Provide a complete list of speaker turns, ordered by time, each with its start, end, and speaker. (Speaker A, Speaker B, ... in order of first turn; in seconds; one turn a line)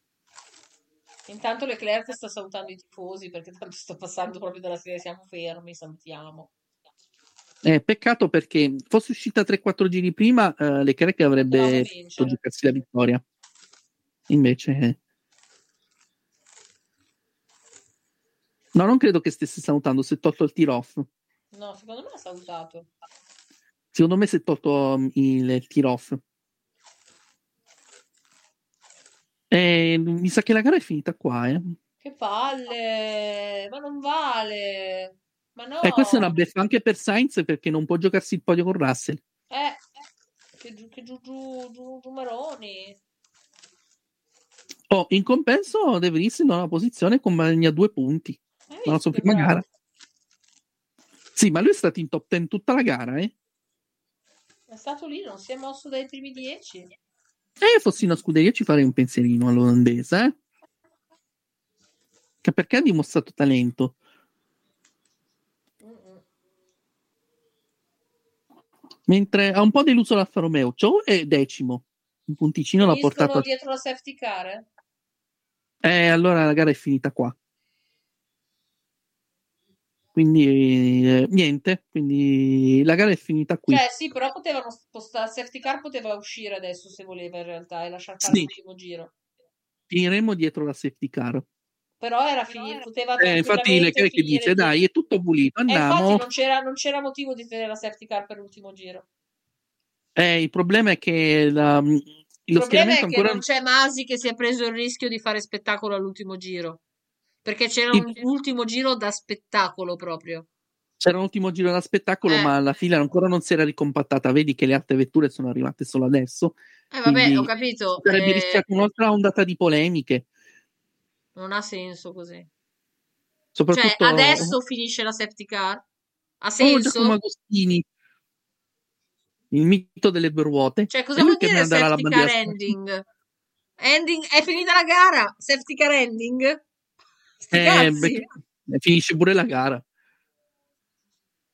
Speaker A: 1.3-6.5
Speaker B: 7.6-13.2
Speaker A: 11.4-12.4
Speaker B: 14.3-15.0
Speaker B: 18.7-21.1
Speaker A: 21.5-22.9
Speaker B: 23.9-26.2
Speaker B: 29.5-31.7
Speaker A: 32.0-36.4
Speaker B: 35.8-39.2
Speaker A: 39.5-39.8
Speaker A: 40.6-43.0
Speaker B: 44.9-49.6
Speaker A: 48.7-49.6
Speaker B: 51.4-53.3
Speaker A: 54.7-56.9
Speaker B: 57.6-60.3
Speaker B: 62.4-64.0
Speaker A: 65.8-66.2
Speaker B: 69.1-73.5
Speaker A: 72.8-74.7
Speaker B: 75.8-77.3
Speaker B: 80.2-83.8
Speaker A: 83.7-89.1
Speaker B: 88.2-88.5
Speaker B: 89.9-91.5
Speaker A: 92.0-94.8
Speaker B: 93.2-96.2
Speaker A: 95.7-99.1
Speaker B: 100.2-103.4
Speaker A: 102.5-106.8
Speaker A: 107.4-110.5
Speaker B: 107.9-108.2
Speaker B: 111.0-120.3
Speaker A: 112.3-112.5
Speaker A: 116.9-118.6
Speaker A: 121.3-122.5
Speaker B: 123.5-124.5
Speaker A: 123.7-125.8
Speaker A: 126.4-127.2
Speaker B: 126.6-127.8
Speaker B: 129.5-132.8
Speaker A: 130.9-133.0
Speaker A: 133.8-136.6
Speaker A: 137.4-138.3
Speaker B: 137.5-139.8